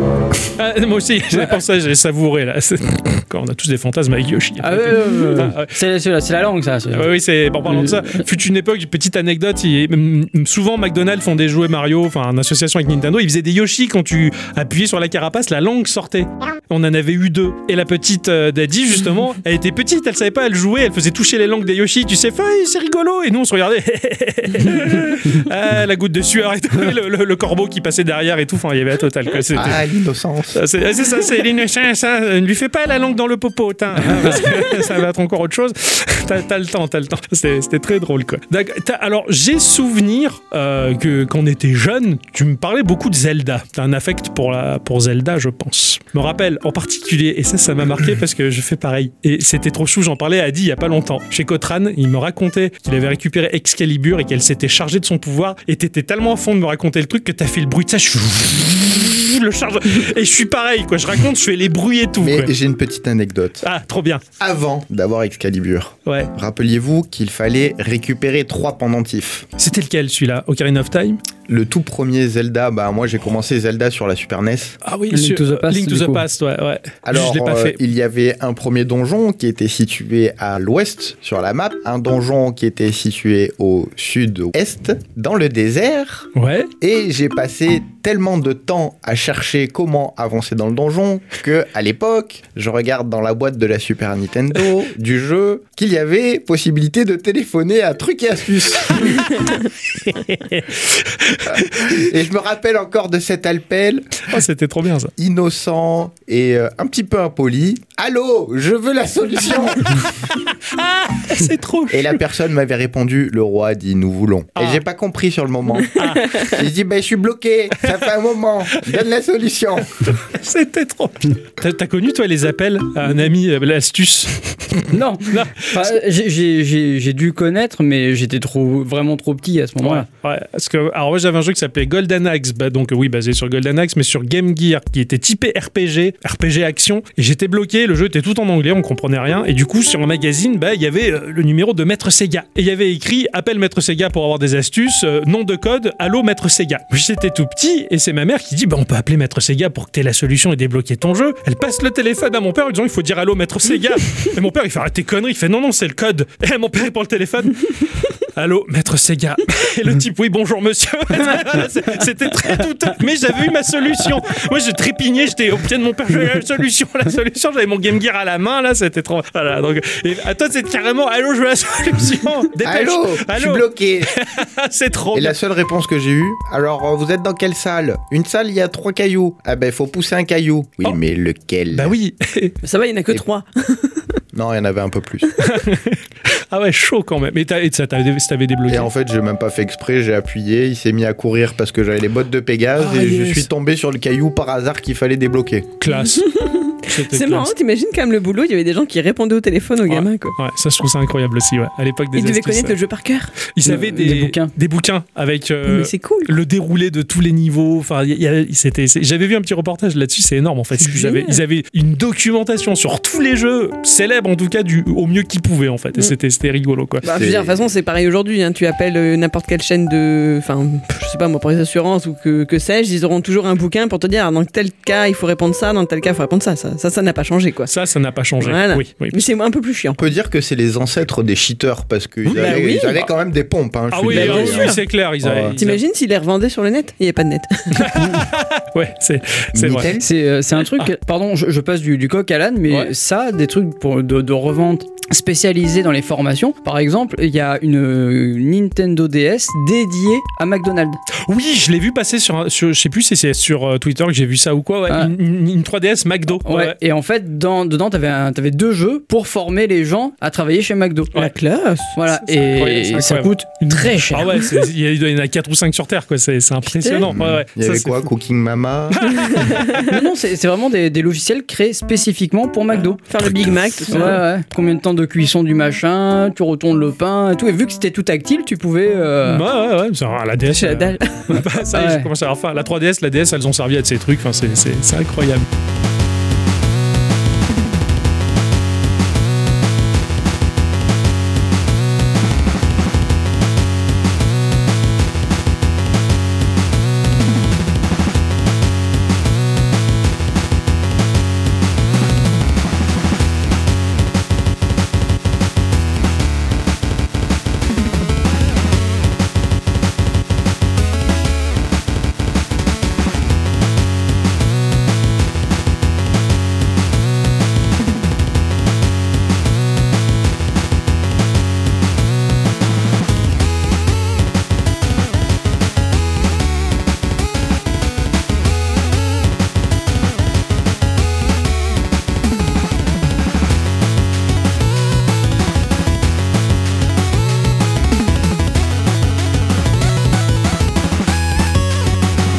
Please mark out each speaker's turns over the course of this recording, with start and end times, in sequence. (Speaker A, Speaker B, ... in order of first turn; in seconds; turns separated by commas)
Speaker A: 0.6-5.7, Speaker B: 4.6-7.1, Speaker A: 6.9-29.8, Speaker B: 7.6-8.2, Speaker C: 29.5-30.6, Speaker A: 30.5-62.5, Speaker C: 62.2-63.6, Speaker A: 63.6-64.2, Speaker C: 64.4-69.5, Speaker A: 66.0-66.3, Speaker A: 69.6-71.2, Speaker C: 71.5-74.8, Speaker A: 74.8-77.8, Speaker B: 75.1-76.2, Speaker C: 77.0-99.3, Speaker A: 86.3-86.7, Speaker A: 100.0-102.0, Speaker C: 101.4-104.3, Speaker A: 104.3-105.1, Speaker C: 105.2-110.1, Speaker A: 110.3-112.2, Speaker C: 111.9-120.1, Speaker A: 114.5-114.8, Speaker A: 115.9-116.5, Speaker A: 120.1-125.9, Speaker B: 124.9-130.1, Speaker A: 129.8-175.3, Speaker C: 172.6-174.1, Speaker C: 175.1-181.9, Speaker A: 181.7-182.5, Speaker D: 182.6-184.1, Speaker C: 184.3-185.3, Speaker A: 185.4-188.9, Speaker C: 188.7-195.7, Speaker A: 192.8-193.5, Speaker A: 195.8-196.3, Speaker D: 195.9-200.3, Speaker A: 196.8-197.5, Speaker A: 199.8-202.8, Speaker D: 202.1-203.3, Speaker A: 203.5-217.0, Speaker B: 203.6-204.5, Speaker D: 205.7-206.3, Speaker D: 210.8-211.4, Speaker D: 217.0-227.7, Speaker C: 217.0-217.7, Speaker A: 227.7-229.2, Speaker D: 228.4-230.0, Speaker C: 230.0-235.6, Speaker A: 232.2-233.0, Speaker D: 232.3-233.1, Speaker A: 233.9-235.8, Speaker D: 234.1-234.8, Speaker D: 235.6-237.9, Speaker A: 237.7-239.9, Speaker C: 239.5-240.1, Speaker B: 240.0-251.0, Speaker A: 251.3-256.8, Speaker B: 256.4-261.3, Speaker D: 261.1-262.0, Speaker B: 261.9-264.5, Speaker A: 262.2-268.1, Speaker D: 266.7-267.1, Speaker C: 267.1-269.5, Speaker A: 268.9-269.8, Speaker D: 269.1-270.0, Speaker B: 269.9-273.0, Speaker D: 273.1-274.2, Speaker B: 273.9-279.4, Speaker A: 279.2-285.4, Speaker D: 280.5-281.4, Speaker B: 281.7-282.1